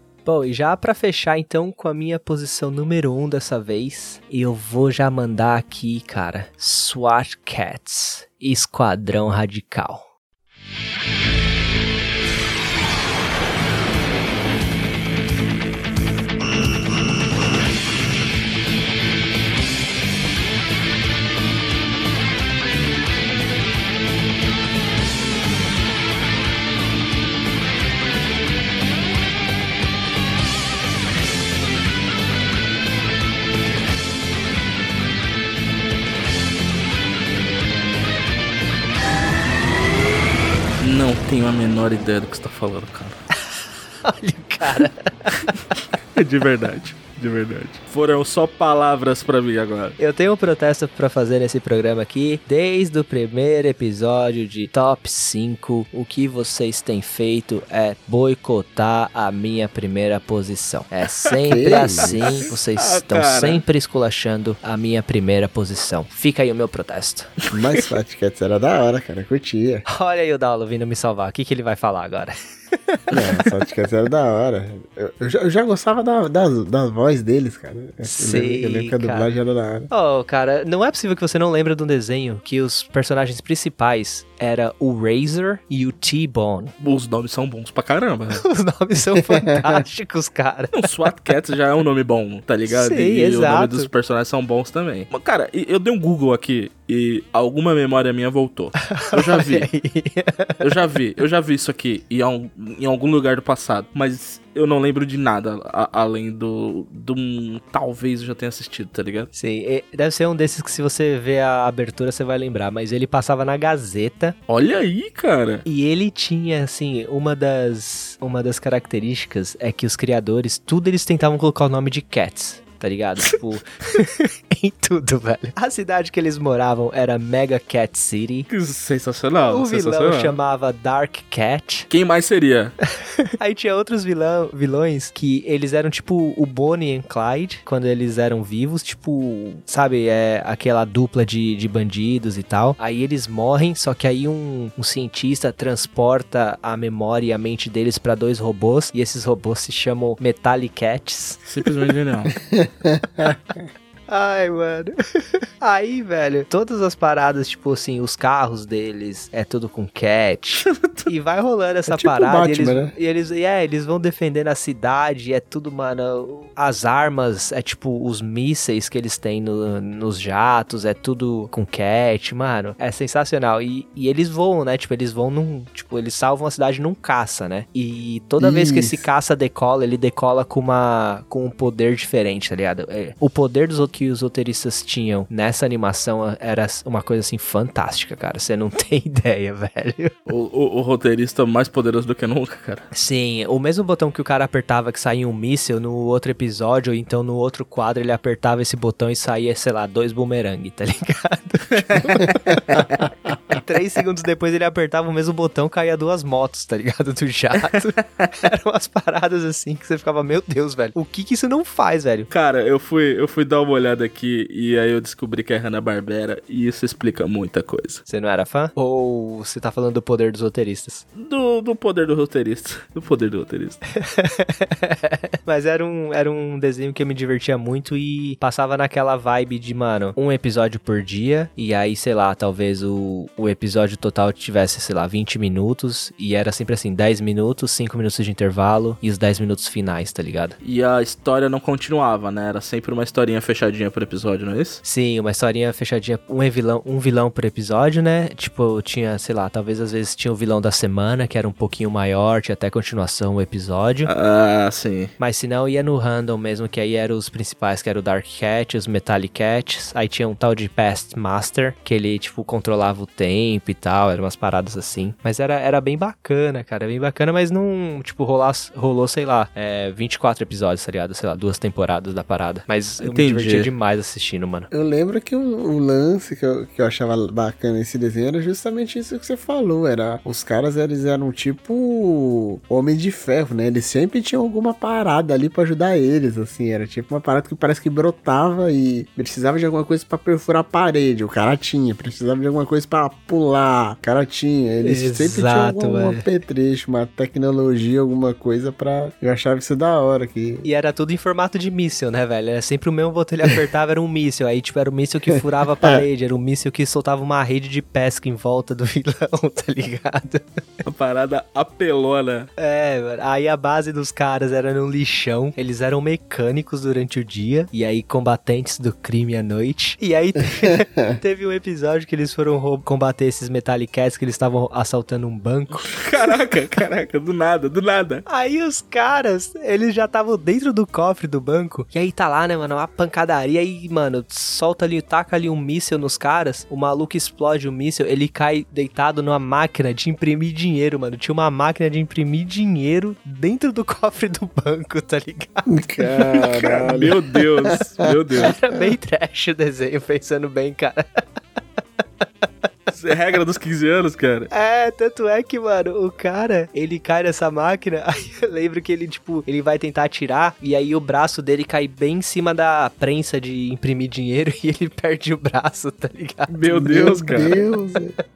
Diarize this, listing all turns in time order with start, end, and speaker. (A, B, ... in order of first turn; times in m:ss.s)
0:00.2-0:10.1 A
0:40.8-0:43.2 B
0:44.0-0:45.5 A
0:44.7-0:45.5 B
0:46.2-0:50.0 B
0:50.0-1:07.3 A
1:01.4-1:02.5 C
1:01.7-1:03.6 B
1:07.5-1:09.8 C
1:09.9-1:12.3 A
1:13.1-1:19.9 C
1:18.0-1:19.3 A
1:19.9-1:26.7 A
1:26.8-1:28.4 B
1:28.4-1:30.9 A
1:29.2-1:29.8 C
1:30.7-1:39.7 B
1:32.7-1:33.9 A
1:38.9-1:40.6 A
1:40.6-1:49.3 B
1:49.3-1:54.4 A
1:54.5-1:55.6 B
1:55.7-2:08.5 A
2:08.5-2:10.4 B
2:09.4-2:11.9 A
2:11.9-2:12.8 B
2:13.4-2:31.4 A
2:31.5-2:32.3 B
2:32.4-2:33.6 C
2:34.1-3:10.1 A
2:40.6-2:41.1 B
2:41.9-2:42.9 C
2:58.4-2:59.0 C
3:10.3-3:12.9 B
3:12.9-3:22.8 A
3:21.8-3:22.9 B
3:23.6-3:32.3 A
3:32.3-3:38.0 B
3:38.1-3:41.0 A
3:41.2-3:43.8 B
3:44.0-4:00.6 A
4:00.6-4:04.8 B
4:04.8-4:14.1 A
4:14.1-4:15.1 B
4:15.2-4:34.7 A
4:33.0-4:33.7 B
4:34.7-5:00.7 C
4:54.8-4:56.2 A
5:00.6-5:10.6 A
5:10.9-5:12.5 B
5:12.6-5:26.0 A
5:20.6-5:21.2 C
5:25.9-5:28.2 B
5:28.3-5:45.7 A
5:45.7-5:48.5 C
5:46.3-5:48.5 B
5:48.4-5:51.2 A
5:52.9-5:54.5 B
5:54.5-6:06.6 A
6:06.5-6:07.6 B
6:06.7-6:08.2 C